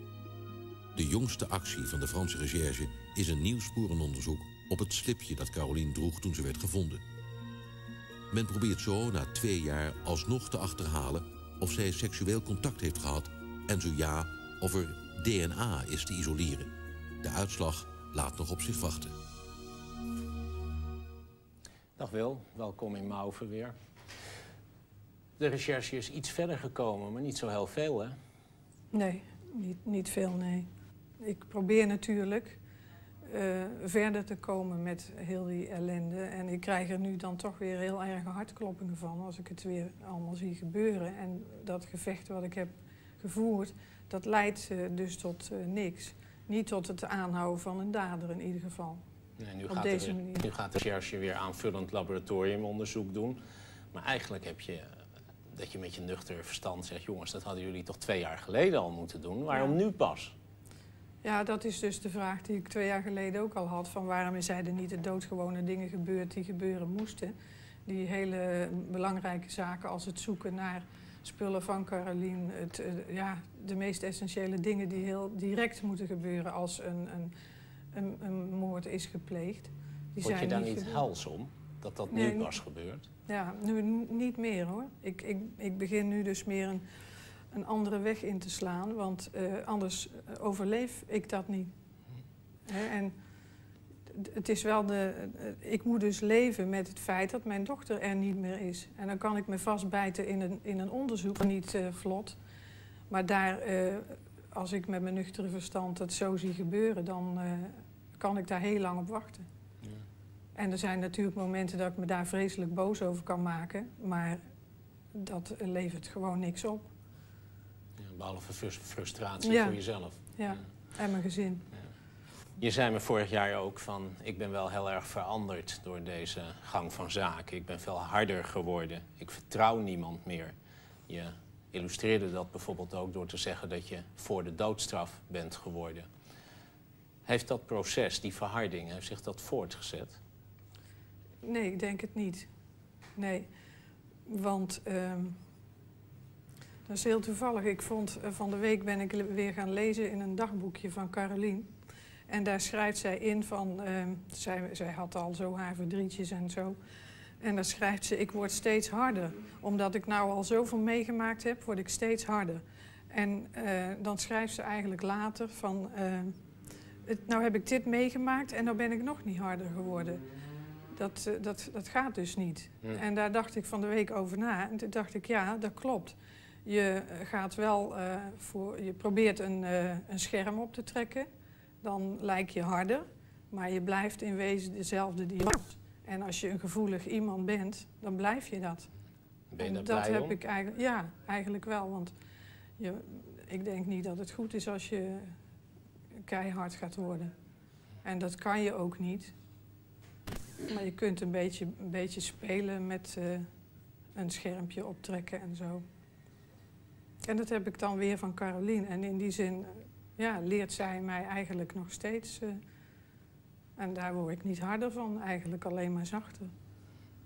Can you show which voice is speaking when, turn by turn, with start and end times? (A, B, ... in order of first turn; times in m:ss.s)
0:01.0-0:07.0 A
0:08.3-0:19.1 A
0:22.0-0:23.8 B
0:25.4-0:28.2 B
0:28.9-0:30.7 C
0:31.2-0:32.6 C
0:33.3-0:49.0 C
0:49.4-0:53.4 B
0:49.7-0:50.5 C
0:53.9-0:54.9 B
0:55.5-1:00.3 B
0:59.5-0:59.8 C
1:01.2-1:07.4 C
1:07.9-1:17.3 C
1:17.9-1:21.0 C
1:20.2-1:23.1 B
1:22.1-1:22.5 C
1:23.3-1:26.8 C
1:27.5-1:31.7 C
1:32.7-1:33.2 C
1:34.1-1:42.4 C
1:43.1-1:49.5 C
1:50.6-1:54.4 C
1:55.2-1:56.9 C
1:58.0-2:00.6 B
1:59.4-1:59.8 C
2:00.4-2:01.6 C
2:02.6-2:10.5 B
2:11.1-2:16.1 B
2:17.3-2:20.2 B
2:21.4-2:22.5 C
2:23.2-2:23.5 C
2:24.3-2:25.4 C
2:26.9-2:31.7 C
2:32.3-2:36.8 C
2:37.4-2:46.4 C
2:47.1-2:50.2 C
2:51.0-3:01.3 C
3:01.8-3:08.9 C
3:09.5-3:10.4 B
3:09.6-3:12.1 C
3:12.8-3:15.4 C
3:16.3-3:17.3 C
3:18.0-3:19.3 C
3:20.7-3:23.5 C
3:24.2-3:25.8 C
3:27.2-3:32.6 C
3:33.8-3:36.5 C